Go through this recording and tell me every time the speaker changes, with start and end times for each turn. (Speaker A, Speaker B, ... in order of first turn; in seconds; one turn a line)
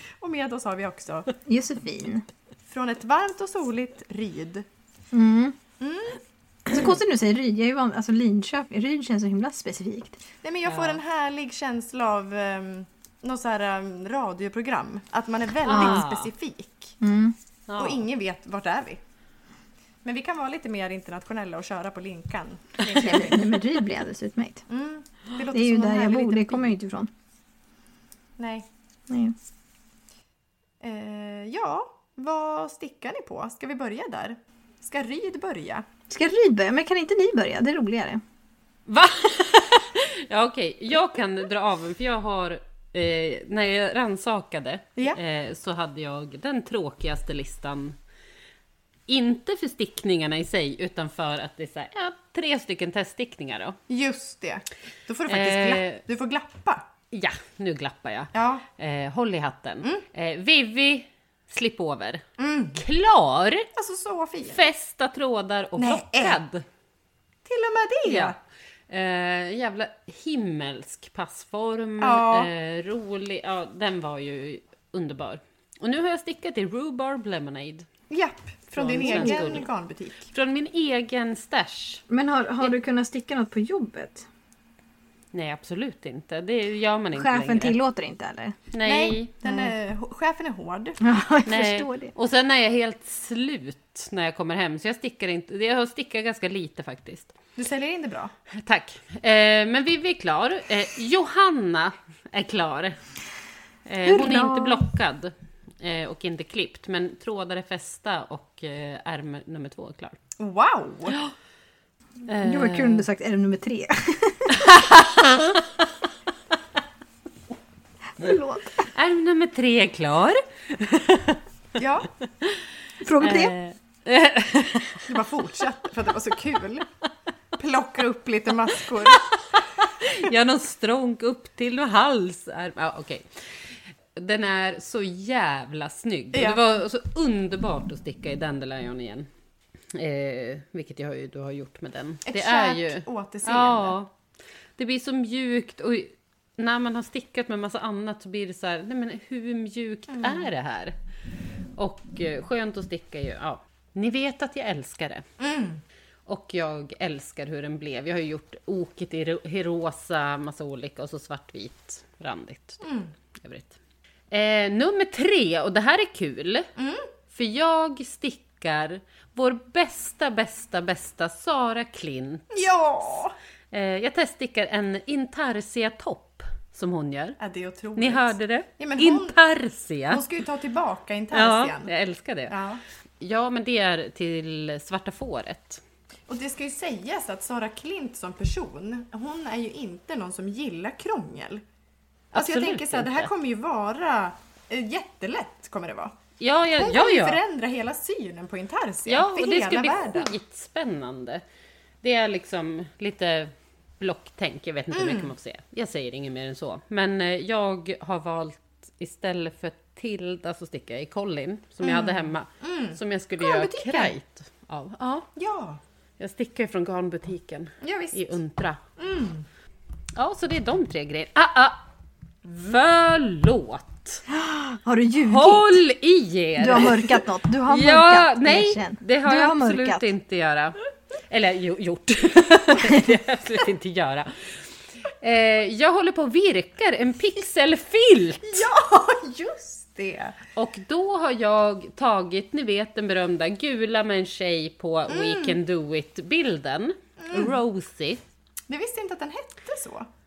Speaker A: 0.2-1.3
Speaker B: 1.4-2.3
Speaker A: 2.7-4.7
Speaker B: 5.1-5.6
Speaker A: 5.8-6.2
Speaker B: 6.7-10.2
Speaker A: 10.4-17.0
Speaker C: 10.7-11.0
Speaker C: 15.6-16.3
Speaker B: 17.0-17.4
Speaker C: 17.7-18.0
Speaker A: 17.8-19.0
Speaker A: 20.0-23.6
Speaker B: 22.9-24.7
Speaker A: 24.7-26.7
Speaker B: 25.5-27.1
Speaker A: 28.4-28.7
Speaker B: 29.1-29.4
Speaker A: 30.8-35.9
Speaker B: 36.1-38.2
Speaker C: 38.9-48.0
Speaker C: 49.1-53.8
Speaker A: 53.9-56.9
Speaker C: 55.3-56.0
Speaker C: 57.1-62.2
Speaker A: 58.3-58.7
Speaker A: 62.4-62.8
Speaker C: 62.8-63.7
Speaker A: 63.8-64.6
Speaker C: 64.5-66.7
Speaker A: 65.8-66.4
Speaker A: 67.5-68.4
Speaker C: 68.0-68.3
Speaker C: 68.9-77.9
Speaker A: 72.0-72.5
Speaker A: 78.1-80.3
Speaker C: 78.8-79.7
Speaker B: 79.1-79.5
Speaker C: 80.3-82.0
Speaker B: 82.1-84.3
Speaker C: 85.3-87.8
Speaker B: 87.1-88.6
Speaker C: 88.7-89.4
Speaker A: 88.8-91.0
Speaker B: 89.5-89.7
Speaker B: 91.0-92.1
Speaker C: 91.5-97.3
Speaker A: 97.6-98.3
Speaker C: 98.5-103.0
Speaker C: 103.9-110.2
Speaker B: 104.0-104.9
Speaker A: 110.4-111.2
Speaker C: 112.3-113.0
Speaker B: 112.4-114.9
Speaker C: 114.6-115.4
Speaker B: 118.2-118.9
Speaker C: 118.9-121.4
Speaker A: 121.8-122.1
Speaker C: 122.3-122.7
Speaker B: 123.0-123.5
Speaker C: 123.2-125.1
Speaker A: 125.0-126.9
Speaker A: 127.6-129.3
Speaker C: 128.8-133.3
Speaker C: 134.1-139.3
Speaker A: 136.3-136.6
Speaker C: 139.9-144.1
Speaker A: 142.3-143.9
Speaker C: 144.8-150.9
Speaker A: 150.1-150.5
Speaker C: 151.8-155.3
Speaker A: 155.4-155.8
Speaker C: 156.3-163.8
Speaker A: 162.8-163.1
Speaker C: 164.3-166.7
Speaker A: 166.8-167.1
Speaker C: 167.3-172.7
Speaker A: 172.5-173.3
Speaker C: 173.7-177.4
Speaker A: 177.4-179.4
Speaker C: 178.0-180.2
Speaker A: 180.1-181.9
Speaker C: 181.3-182.6
Speaker A: 182.5-182.8
Speaker C: 183.2-185.8
Speaker A: 186.3-191.6
Speaker C: 192.3-193.3
Speaker A: 192.3-196.1
Speaker C: 196.4-197.4
Speaker A: 196.8-200.3
Speaker C: 199.1-201.4
Speaker C: 202.0-215.3
Speaker A: 204.9-205.3
Speaker A: 211.8-214.1
Speaker A: 215.4-215.8
Speaker C: 216.2-218.8
Speaker A: 217.8-218.3
Speaker A: 219.0-219.5
Speaker C: 220.2-221.8
Speaker A: 222.4-222.8
Speaker C: 222.6-224.2
Speaker B: 224.3-225.8
Speaker C: 225.2-230.8
Speaker B: 226.6-230.1
Speaker C: 231.3-238.7
Speaker A: 238.4-240.4
Speaker C: 240.6-248.2
Speaker A: 245.1-245.6
Speaker A: 247.2-247.6
Speaker A: 248.7-250.1